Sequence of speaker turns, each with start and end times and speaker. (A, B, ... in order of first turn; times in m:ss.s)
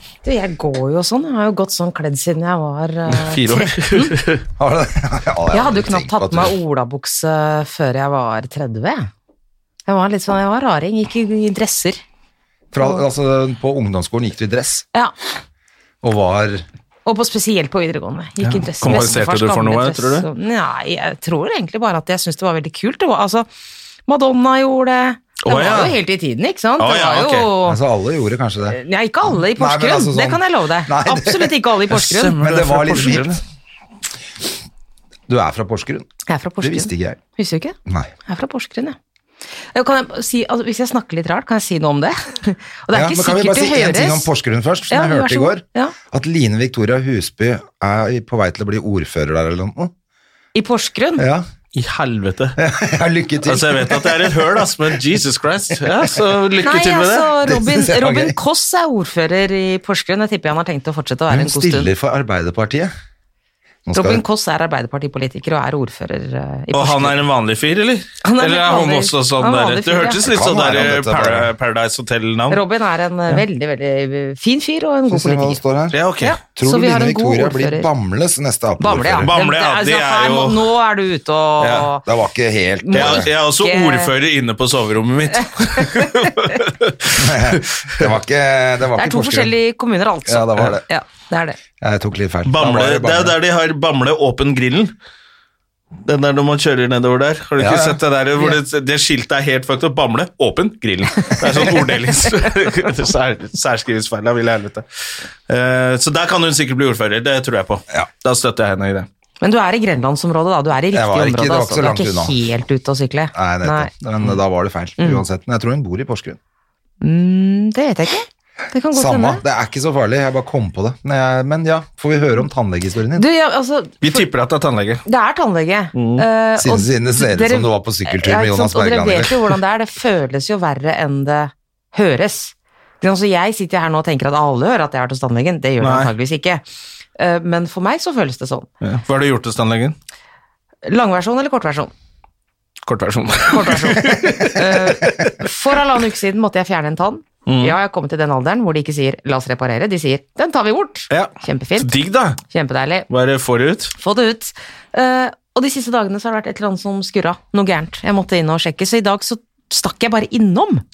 0:00.2-0:04.2 A
0:03.1-0:04.4 B
0:04.6-0:06.6 C
0:05.5-0:09.1 A
0:09.9-0:12.0 A
0:12.7-0:14.9 C
0:16.0-0:16.6 C
0:17.1-0:23.5 A
0:18.8-0:20.3 B
0:24.1-0:27.8 A
0:25.4-0:26.0 B
0:26.8-0:27.5 B
0:27.6-0:28.8 C
0:28.7-0:32.4 A
0:29.3-0:31.6 C
0:31.9-0:33.4 B
0:32.4-0:33.4 C
0:35.3-0:36.1 C
0:36.3-0:37.8 A
0:36.6-0:37.2 C
0:37.9-0:38.1 C
0:38.3-0:39.0 A
0:39.7-0:44.3 A
0:42.9-0:49.9 C
0:44.9-0:46.0 A
0:50.6-0:51.2 A
0:51.2-0:51.5 C
0:51.8-0:52.6 B
0:52.6-0:54.8 C
0:53.4-0:57.3 B
0:56.6-1:01.9 A
0:57.4-0:58.4 C
1:01.3-1:02.9 C
1:03.9-1:04.2 C
1:04.0-1:07.2 A
1:06.7-1:12.6 B
1:08.2-1:10.2 A
1:10.2-1:11.5 C
1:12.5-1:15.6 A
1:15.1-1:19.3 C
1:15.9-1:16.4 B
1:16.2-1:17.9 A
1:18.8-1:22.0 A
1:19.2-1:20.7 B
1:21.6-1:21.9 B
1:22.0-1:23.3 C
1:22.8-1:24.1 A
1:22.9-1:28.1 B
1:25.8-1:26.3 A
1:27.2-1:29.5 C
1:29.0-1:31.6 A
1:30.3-1:30.8 C
1:31.8-1:33.4 C
1:32.4-1:34.9 B
1:36.0-1:44.8 B
1:37.6-1:38.0 C
1:45.5-1:49.1 B
1:49.4-1:53.9 A
1:50.9-1:52.4 C
1:53.3-1:56.4 C
1:55.0-1:55.2 A
1:57.0-1:59.4 A
1:58.9-2:03.2 C
2:03.2-2:04.2 A
2:04.0-2:05.0 B
2:05.1-2:16.6 A
2:06.0-2:06.2 B
2:06.6-2:09.5 C
2:15.8-2:16.1 B
2:17.2-2:18.7 A
2:18.8-2:20.0 B
2:20.8-2:21.9 A
2:22.9-2:25.5 B
2:23.5-2:31.9 A
2:27.5-2:27.8 B
2:31.1-2:32.4 B
2:32.5-2:33.1 A
2:33.1-2:33.9 B
2:34.0-2:40.8 A